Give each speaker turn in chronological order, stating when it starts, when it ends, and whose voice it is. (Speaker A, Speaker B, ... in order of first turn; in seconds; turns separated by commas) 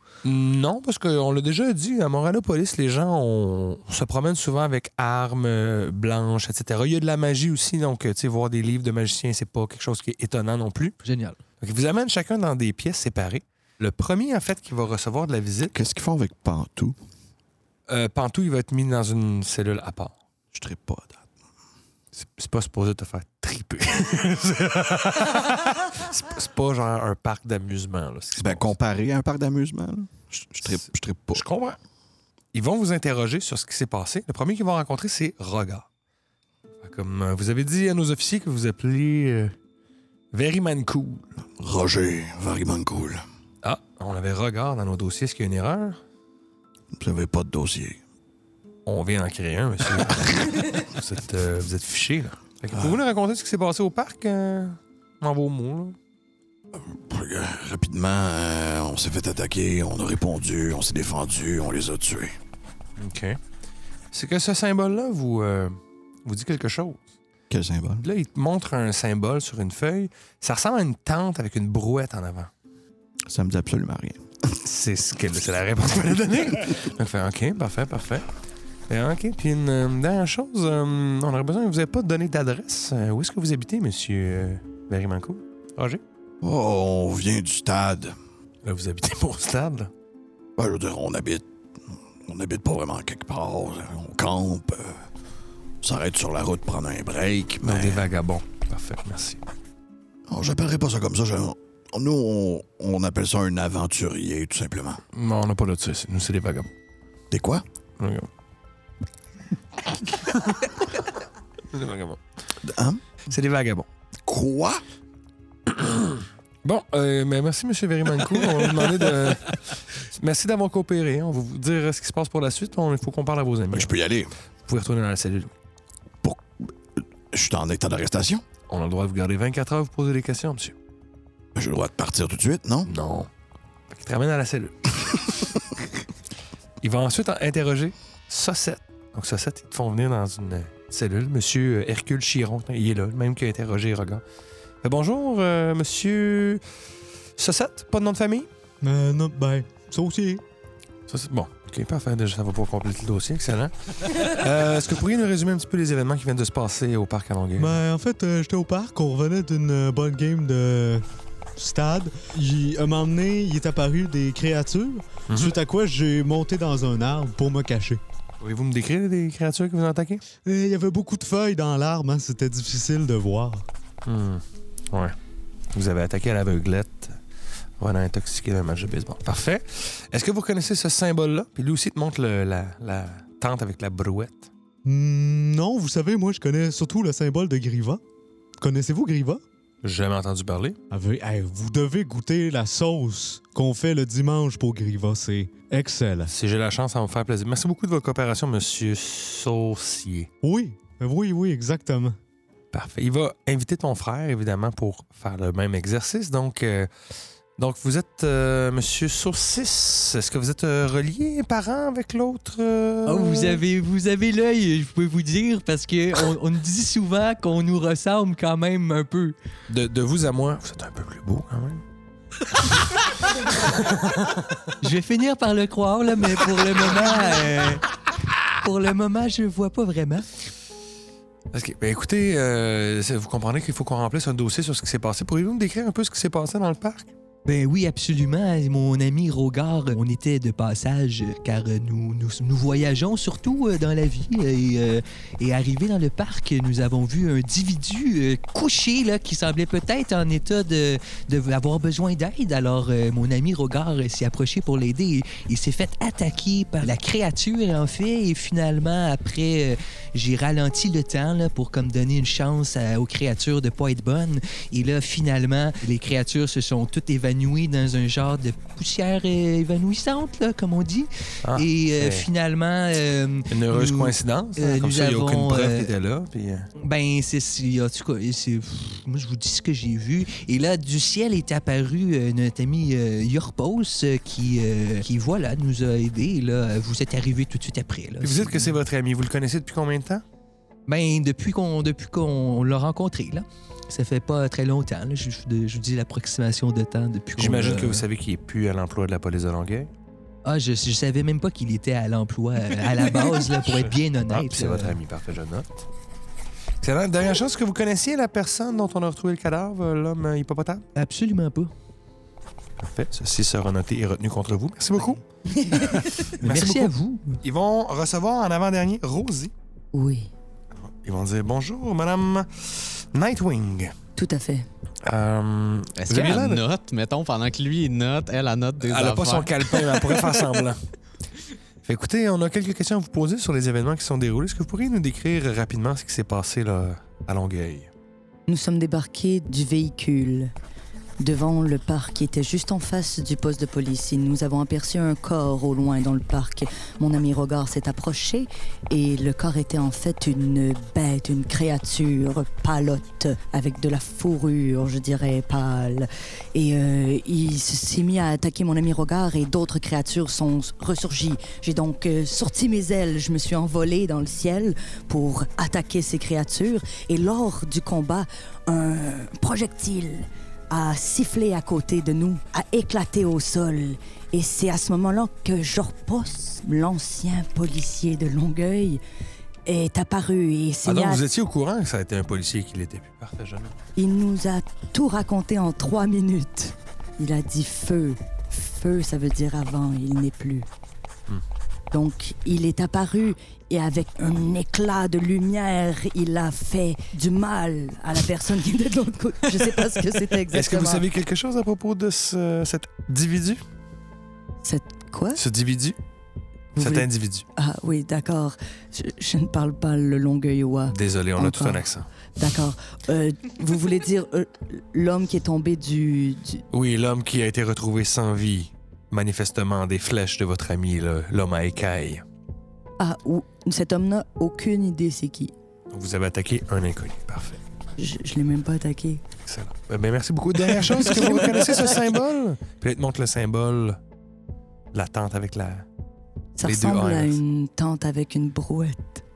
Speaker A: 0.2-10.9, Speaker B: 11.0-11.4, Speaker A: 11.6-15.8, Speaker C: 15.7-16.9, Speaker A: 17.9-20.1, Speaker C: 20.5-21.2, Speaker A: 22.1-28.7, Speaker C: 28.4-31.4, Speaker A: 30.6-31.8, Speaker A: 32.5-35.9, Speaker A: 36.8-39.5, Speaker A: 40.3-41.2, Speaker C: 41.6-43.2, Speaker A: 43.6-46.0, Speaker C: 46.9-48.0, Speaker A: 48.9-56.0, Speaker C: 56.7-62.4, Speaker A: 63.0-63.4, Speaker A: 64.1-67.0, Speaker C: 67.5-68.0, Speaker A: 68.0-72.5, Speaker C: 73.3-74.2, Speaker A: 74.6-78.3, Speaker A: 78.9-86.0, Speaker C: 86.4-88.1, Speaker A: 88.6-89.9, Speaker C: 90.6-91.4, Speaker C: 92.2-95.0, Speaker C: 95.8-98.0, Speaker A: 97.6-99.4, Speaker C: 100.3-105.0, Speaker A: 105.1-106.7, Speaker C: 107.3-107.6, Speaker A: 108.0-108.3, Speaker A: 111.7-112.2, Speaker C: 112.6-113.0, Speaker A: 113.3-113.9, Speaker C: 114.2-114.8, Speaker A: 115.7-123.9, Speaker C: 123.7-124.3, Speaker A: 124.7-125.5, Speaker C: 126.2-128.4, Speaker A: 128.7-130.7, Speaker C: 131.5-132.9, Speaker A: 132.9-133.3, Speaker A: 133.9-135.6, Speaker A: 136.8-144.2, Speaker A: 144.8-146.6, Speaker A: 147.4-148.5, Speaker D: 148.8-150.4, Speaker A: 151.1-157.8, Speaker D: 157.6-161.0, Speaker D: 161.6-168.0, Speaker A: 165.3-165.6, Speaker A: 168.4-170.2, Speaker D: 170.4-173.6, Speaker A: 174.1-175.1, Speaker A: 175.7-177.2, Speaker A: 177.8-184.5, Speaker D: 184.8-188.0, Speaker D: 188.6-189.4, Speaker A: 189.8-190.8, Speaker D: 190.9-196.3, Speaker A: 196.3-200.3, Speaker D: 200.4-202.2, Speaker A: 202.7-206.9, Speaker A: 207.6-213.6, Speaker B: 213.1-219.3, Speaker A: 219.7-221.8, Speaker A: 223.6-224.6, Speaker B: 224.8-227.8, Speaker B: 228.6-230.3, Speaker A: 231.5-237.1, Speaker B: 237.4-275.9, Speaker A: 271.4-272.3, Speaker A: 273.5-276.7, Speaker B: 276.8-288.8, Speaker A: 288.2-290.2, Speaker B: 290.9-298.0, Speaker A: 297.4-299.9, Speaker B: 300.4-305.0, Speaker A: 303.5-305.9, Speaker A: 306.8-310.9, Speaker B: 310.9-311.7, Speaker A: 312.8-315.2, Speaker B: 316.2-317.4, Speaker A: 316.4-319.5, Speaker E: 319.9-320.3, Speaker A: 320.9-323.9, Speaker E: 324.2-324.7, Speaker A: 325.0-326.6, Speaker F: 326.0-330.1, Speaker A: 328.8-330.8, Speaker A: 331.8-337.9, Speaker E: 338.5-340.5, Speaker E: 341.2-379.0, Speaker E: 379.6-381.2, Speaker A: 380.8-383.7, Speaker E: 383.9-390.7, Speaker E: 391.9-401.0, Speaker A: 400.5-403.6, Speaker E: 404.6-405.4, Speaker A: 405.4-406.0, Speaker A: 406.8-407.4, Speaker E: 406.8-411.8, Speaker A: 410.9-412.1, Speaker E: 412.4-416.6, Speaker A: 416.7-422.2, Speaker E: 423.0-425.5, Speaker A: 425.9-427.6, Speaker E: 428.0-429.2, Speaker A: 429.4-434.0, Speaker E: 430.9-431.8, Speaker A: 434.9-435.9, Speaker E: 436.6-439.2, Speaker A: 436.6-437.4